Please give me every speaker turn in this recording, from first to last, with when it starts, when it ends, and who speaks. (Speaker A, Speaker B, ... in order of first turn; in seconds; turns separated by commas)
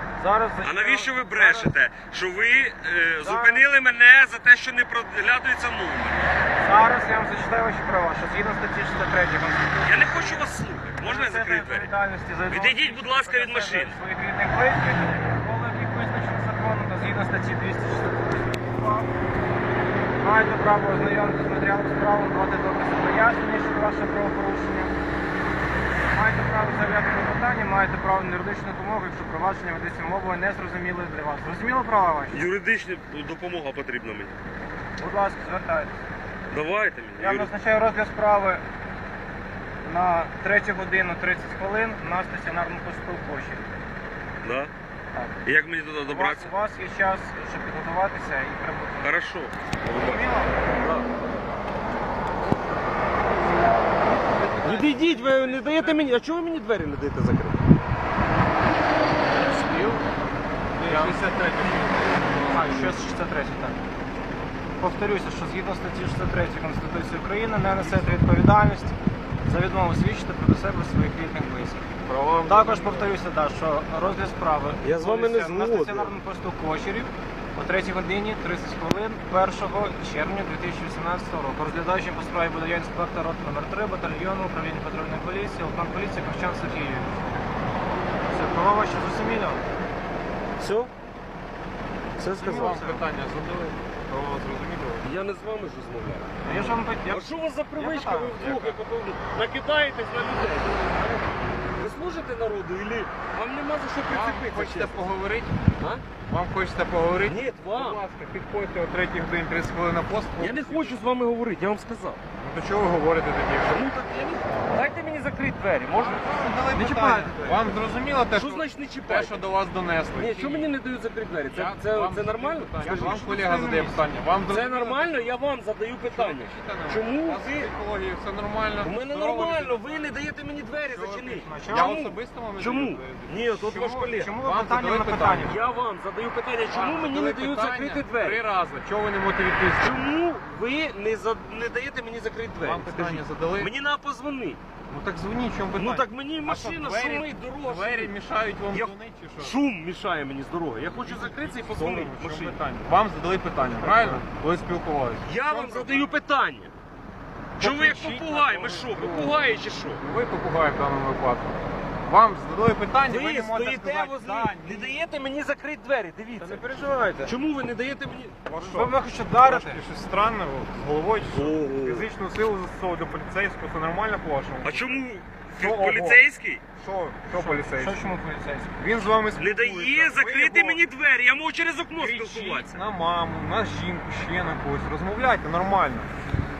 Speaker A: 0.2-1.8, Speaker B: 0.6-6.2, Speaker A: 3.2-3.7, Speaker A: 6.5-10.5, Speaker B: 9.8-11.9, Speaker A: 11.0-19.1, Speaker B: 12.5-14.0, Speaker A: 20.2-24.9, Speaker A: 26.1-32.4, Speaker B: 32.3-34.4, Speaker A: 35.0-36.0, Speaker B: 36.5-37.5, Speaker A: 37.2-38.6, Speaker A: 39.8-43.7, Speaker B: 44.4-44.7, Speaker A: 45.1-45.4, Speaker B: 45.5-46.5, Speaker A: 46.0-49.2, Speaker B: 49.0-51.1, Speaker A: 50.0-50.6, Speaker C: 54.1-56.0, Speaker B: 54.6-57.6, Speaker C: 59.4-60.0, Speaker C: 60.8-63.0, Speaker A: 60.9-61.2, Speaker A: 62.5-63.8, Speaker A: 64.8-71.8, Speaker C: 67.8-68.2, Speaker C: 72.1-73.1, Speaker A: 72.4-87.2, Speaker B: 74.8-76.1, Speaker A: 88.3-89.7, Speaker B: 90.6-90.9, Speaker B: 92.2-92.9, Speaker A: 92.4-93.0, Speaker C: 92.4-95.1, Speaker B: 95.0-96.3, Speaker A: 96.4-97.9, Speaker C: 96.4-96.8, Speaker B: 97.1-101.2, Speaker C: 97.8-98.8, Speaker B: 101.8-105.1, Speaker C: 104.1-105.6, Speaker B: 105.8-106.0, Speaker C: 106.2-111.0, Speaker B: 107.2-108.0, Speaker B: 110.4-112.2, Speaker C: 112.4-113.9, Speaker B: 113.7-116.8, Speaker C: 116.0-120.7, Speaker A: 116.7-117.8, Speaker B: 118.3-119.4, Speaker B: 120.2-123.5, Speaker C: 121.5-125.3, Speaker A: 122.8-124.0, Speaker B: 124.5-127.7, Speaker C: 126.1-130.2, Speaker B: 128.8-134.3, Speaker C: 130.8-133.5, Speaker A: 131.3-132.0, Speaker A: 133.5-135.6, Speaker C: 134.3-135.6, Speaker B: 135.4-138.4, Speaker C: 136.7-140.0, Speaker B: 139.8-144.6, Speaker C: 142.6-143.7, Speaker C: 144.9-149.6, Speaker B: 145.8-148.1, Speaker B: 148.7-152.6, Speaker C: 150.9-156.2, Speaker B: 153.7-154.2, Speaker B: 155.2-156.7, Speaker C: 157.6-161.5, Speaker B: 157.6-160.0, Speaker C: 162.1-165.0, Speaker B: 163.0-168.4, Speaker A: 166.4-167.3, Speaker C: 168.5-175.0, Speaker A: 168.5-169.8, Speaker B: 171.3-172.1, Speaker B: 174.6-176.6, Speaker C: 175.6-176.2, Speaker C: 176.8-178.0, Speaker A: 177.3-178.7, Speaker C: 178.8-180.8, Speaker B: 179.4-182.8, Speaker C: 182.0-186.1